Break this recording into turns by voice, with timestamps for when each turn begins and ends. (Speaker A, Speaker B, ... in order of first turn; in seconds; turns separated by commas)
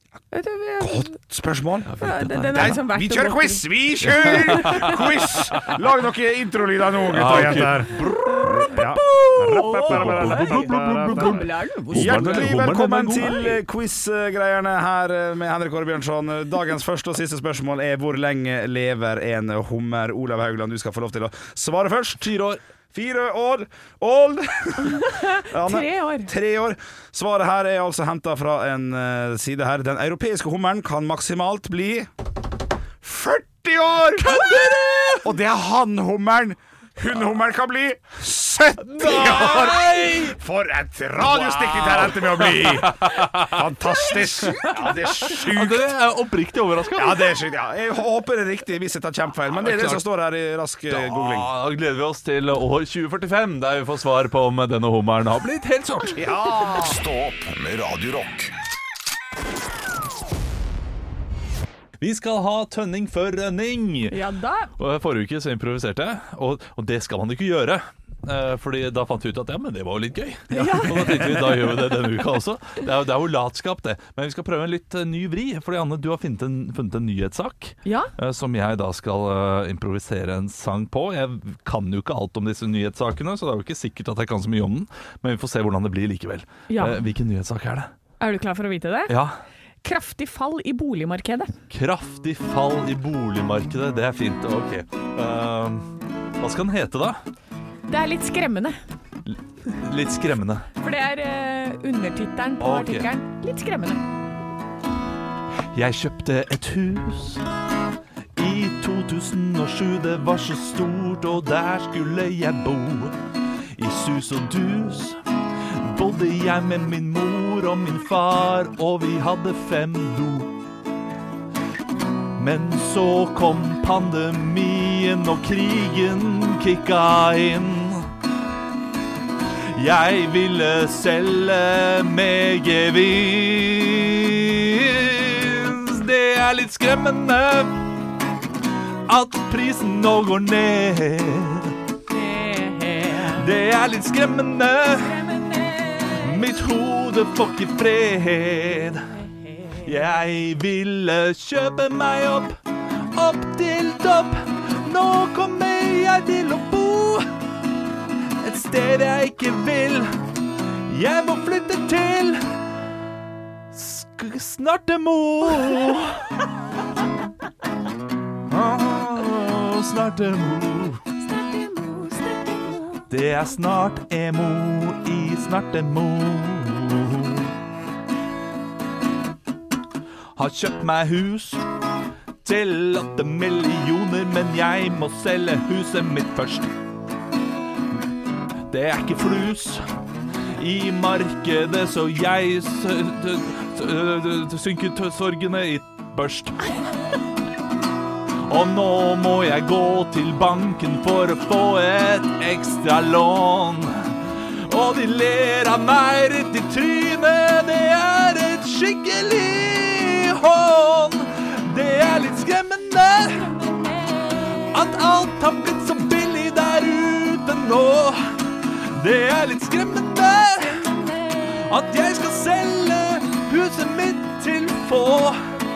Speaker A: 0.3-1.1, Speaker B: 0.8-2.0, Speaker C: 1.9-2.8, Speaker A: 2.0-3.6, Speaker B: 2.5-22.4, Speaker C: 4.1-5.8, Speaker A: 4.3-5.0, Speaker C: 7.1-13.6, Speaker A: 8.2-8.8, Speaker A: 9.5-12.6, Speaker C: 22.2-22.6, Speaker B: 22.9-32.1, Speaker A: 24.8-26.3, Speaker B: 33.0-34.6, Speaker C: 34.3-35.3, Speaker B: 35.2-45.9, Speaker C: 38.9-40.4, Speaker C: 41.2-47.4, Speaker B: 46.9-51.5, Speaker C: 49.6-50.0, Speaker C: 50.9-56.2, Speaker B: 56.1-57.0, Speaker D: 56.3-58.5, Speaker C: 62.0-64.2, Speaker A: 64.1-64.7, Speaker C: 64.8-87.9, Speaker B: 70.5-71.5, Speaker A: 70.5-71.6, Speaker A: 77.8-78.1, Speaker A: 86.7-87.0, Speaker A: 88.2-89.2, Speaker C: 89.1-89.3, Speaker A: 89.8-91.5, Speaker C: 91.7-97.2, Speaker A: 97.9-98.8, Speaker C: 99.3-100.7, Speaker A: 100.8-104.0, Speaker C: 102.6-103.1, Speaker C: 105.7-107.5, Speaker C: 108.4-113.2, Speaker C: 113.8-115.2, Speaker C: 115.7-120.5, Speaker C: 122.4-128.1, Speaker C: 129.7-137.8, Speaker C: 139.1-141.8, Speaker A: 142.2-143.4, Speaker C: 143.2-145.2, Speaker A: 145.3-146.1, Speaker C: 146.1-149.1, Speaker C: 149.8-152.6, Speaker C: 153.1-157.3, Speaker C: 158.4-160.1, Speaker C: 160.9-162.4, Speaker C: 163.7-166.3, Speaker C: 168.5-171.0, Speaker A: 171.2-173.0, Speaker C: 173.1-177.5, Speaker C: 180.4-181.6, Speaker C: 182.4-186.7, Speaker C: 188.7-189.8, Speaker C: 190.6-196.8, Speaker C: 198.4-213.6, Speaker C: 214.7-225.4